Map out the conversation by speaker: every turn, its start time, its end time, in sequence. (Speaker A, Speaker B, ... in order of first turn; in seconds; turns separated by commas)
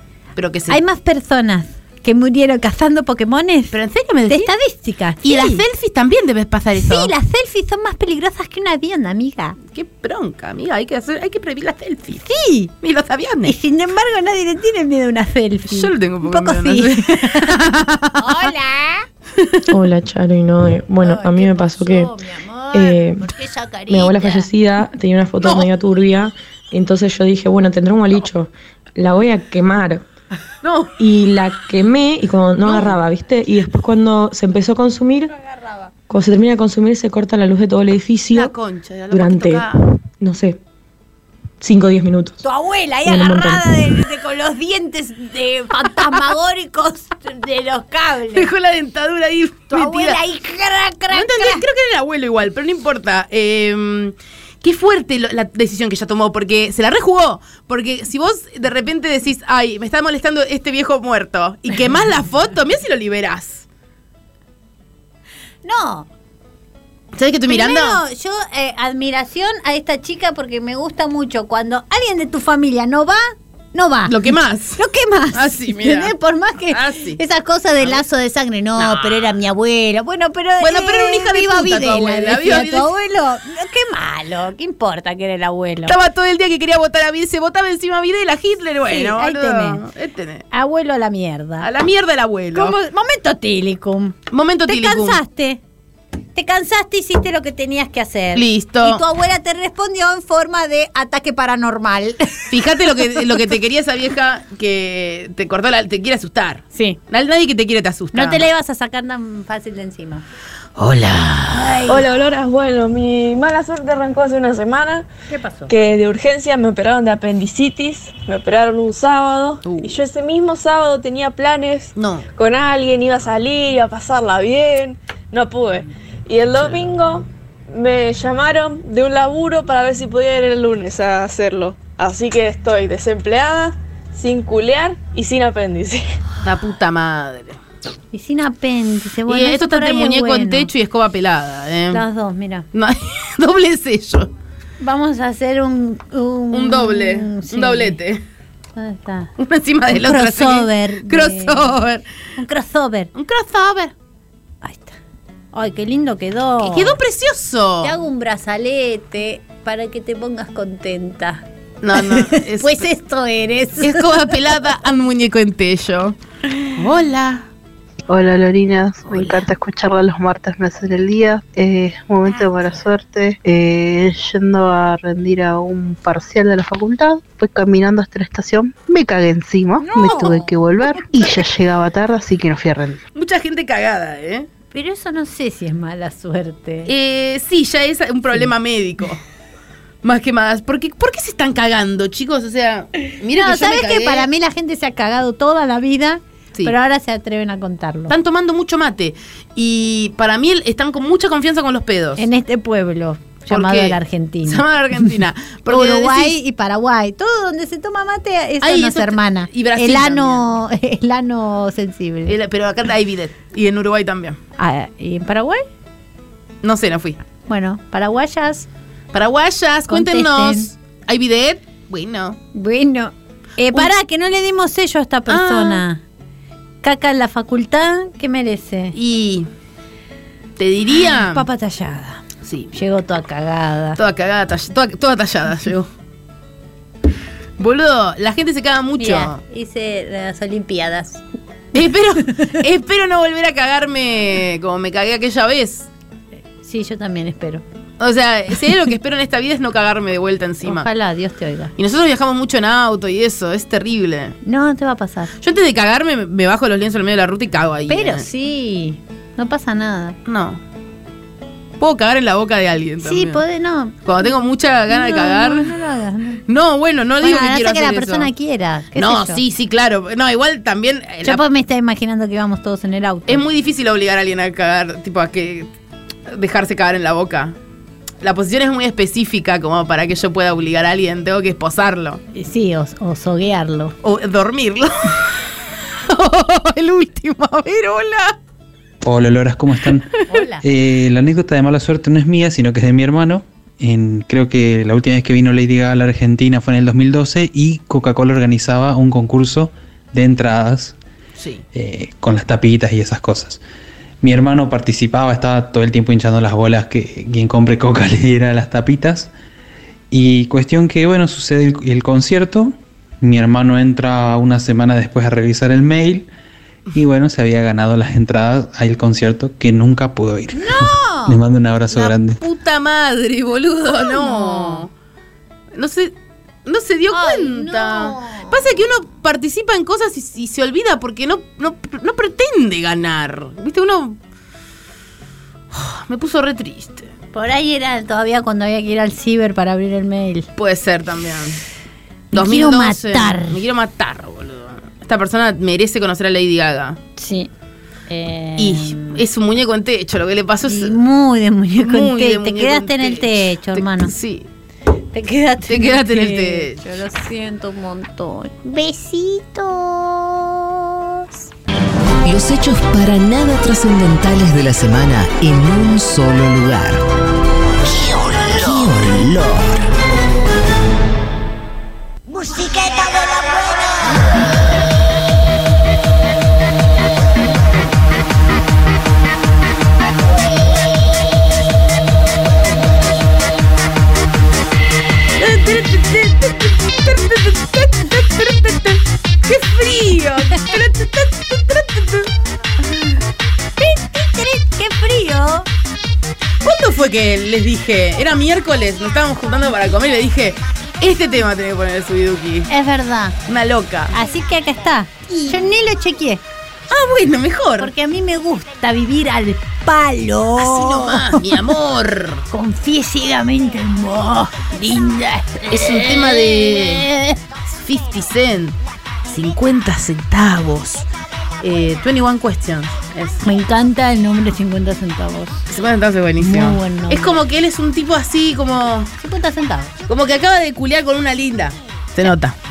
Speaker A: 0.4-0.8, Speaker B: 0.7-3.8, Speaker A: 3.7-4.5, Speaker B: 4.3-5.6, Speaker A: 5.2-7.1, Speaker B: 6.8-9.6, Speaker A: 9.7-12.3, Speaker B: 12.2-12.7, Speaker A: 12.8-13.6, Speaker B: 13.4-17.6, Speaker A: 15.7-18.5, Speaker B: 18.2-19.1, Speaker C: 19.7-22.1, Speaker B: 21.0-24.5, Speaker C: 22.7-23.3, Speaker C: 23.9-30.1, Speaker A: 25.4-25.7, Speaker A: 30.6-30.9, Speaker C: 31.0-35.3, Speaker A: 32.6-33.0, Speaker B: 35.4-35.9, Speaker C: 36.1-38.5, Speaker A: 38.3-39.8, Speaker C: 39.1-40.6, Speaker C: 41.6-42.4, Speaker B: 42.4-48.5, Speaker C: 43.0-43.7, Speaker A: 48.3-50.2, Speaker B: 49.7-51.6, Speaker A: 51.1-63.7, Speaker B: 65.6-66.1, Speaker A: 67.1-68.0, Speaker B: 67.5-86.0, Speaker A: 74.1-76.1, Speaker A: 76.7-77.2, Speaker A: 77.8-78.0, Speaker A: 78.8-79.4, Speaker A: 80.6-82.9, Speaker A: 85.9-90.5, Speaker B: 88.9-89.8, Speaker B: 90.5-91.7, Speaker A: 91.6-92.8, Speaker B: 92.5-95.6, Speaker A: 94.3-95.2, Speaker B: 96.3-103.2, Speaker A: 98.3-99.0, Speaker A: 102.5-108.5, Speaker B: 106.7-107.0, Speaker B: 108.1-110.2, Speaker A: 110.8-112.0, Speaker B: 111.5-112.0, Speaker D: 111.9-115.1, Speaker B: 115.3-115.7, Speaker D: 115.7-136.1, Speaker A: 119.6-120.0, Speaker A: 122.0-122.3, Speaker A: 136.4-137.6, Speaker B: 138.1-140.7, Speaker A: 139.3-142.0, Speaker B: 141.9-142.7, Speaker A: 142.7-144.3, Speaker B: 144.8-148.0, Speaker A: 146.5-148.2, Speaker B: 148.8-149.3, Speaker A: 149.4-152.1, Speaker B: 149.9-151.8, Speaker B: 152.4-153.1, Speaker A: 153.2-153.9, Speaker B: 154.6-155.0, Speaker B: 155.5-157.0, Speaker A: 156.6-158.0, Speaker B: 157.8-164.4, Speaker A: 161.8-162.9, Speaker A: 163.8-166.2, Speaker A: 166.7-167.5, Speaker E: 168.1-183.0, Speaker B: 169.1-169.4, Speaker B: 172.3-172.8, Speaker B: 179.8-181.5, Speaker A: 183.2-184.5, Speaker B: 184.7-186.9, Speaker A: 186.9-189.2, Speaker A: 190.0-194.3, Speaker B: 193.4-198.1, Speaker A: 198.1-202.3, Speaker B: 202.2-205.1, Speaker A: 203.5-206.4, Speaker B: 205.7-212.4, Speaker A: 208.6-210.5, Speaker A: 212.3-214.4, Speaker B: 214.6-215.6, Speaker A: 216.6-217.2, Speaker B: 217.5-218.7, Speaker A: 219.1-222.4, Speaker B: 219.9-220.7, Speaker B: 222.5-226.0, Speaker A: 225.3-225.8, Speaker B: 226.8-229.0, Speaker A: 228.9-229.5, Speaker A: 230.6-231.5, Speaker B: 231.0-234.0, Speaker A: 232.4-232.7, Speaker A: 234.0-235.9, Speaker A: 237.6-239.4, Speaker B: 239.0-241.2, Speaker A: 241.7-245.9, Speaker B: 242.3-242.6, Speaker B: 246.6-247.6, Speaker A: 248.0-250.9, Speaker B: 250.6-251.7, Speaker A: 251.8-254.3, Speaker B: 254.4-255.3, Speaker A: 255.4-258.3, Speaker B: 257.9-260.2, Speaker A: 260.3-260.6, Speaker A: 261.8-263.4, Speaker B: 263.0-264.0, Speaker A: 264.1-265.8, Speaker B: 264.9-266.4, Speaker A: 266.5-268.3, Speaker B: 267.2-269.4, Speaker A: 268.9-271.4, Speaker B: 271.2-273.4, Speaker A: 273.3-275.7, Speaker A: 276.3-277.6, Speaker A: 278.2-282.2, Speaker B: 282.3-283.9, Speaker A: 284.0-288.4, Speaker F: 289.0-301.0, Speaker B: 290.3-290.6, Speaker A: 301.4-301.6, Speaker F: 301.7-303.6, Speaker F: 304.2-309.3, Speaker F: 310.1-316.3, Speaker F: 316.9-322.4, Speaker B: 320.5-321.4, Speaker A: 321.9-324.9, Speaker B: 323.9-324.9, Speaker A: 325.7-334.2, Speaker B: 327.1-328.6, Speaker A: 335.7-337.1, Speaker B: 337.3-340.5, Speaker A: 340.6-341.6, Speaker B: 342.3-343.6, Speaker A: 342.3-347.0, Speaker B: 347.2-347.5, Speaker B: 348.1-349.2, Speaker A: 348.6-351.0, Speaker B: 350.6-354.1, Speaker A: 351.8-354.5, Speaker B: 355.1-361.3, Speaker A: 355.7-356.8, Speaker G: 362.2-367.0, Speaker G: 368.1-369.8, Speaker A: 385.4-392.3, Speaker B: 393.8-395.7, Speaker A: 396.6-402.7, Speaker B: 402.7-403.4, Speaker A: 403.5-404.2, Speaker B: 404.1-406.4, Speaker A: 406.9-407.9, Speaker B: 407.8-411.5, Speaker A: 410.6-412.5, Speaker B: 412.5-417.4, Speaker A: 415.7-417.1, Speaker A: 417.7-421.1, Speaker A: 421.6-423.4, Speaker B: 423.4-425.6, Speaker A: 425.7-429.1, Speaker B: 426.4-427.4, Speaker B: 429.2-429.9, Speaker A: 430.1-432.6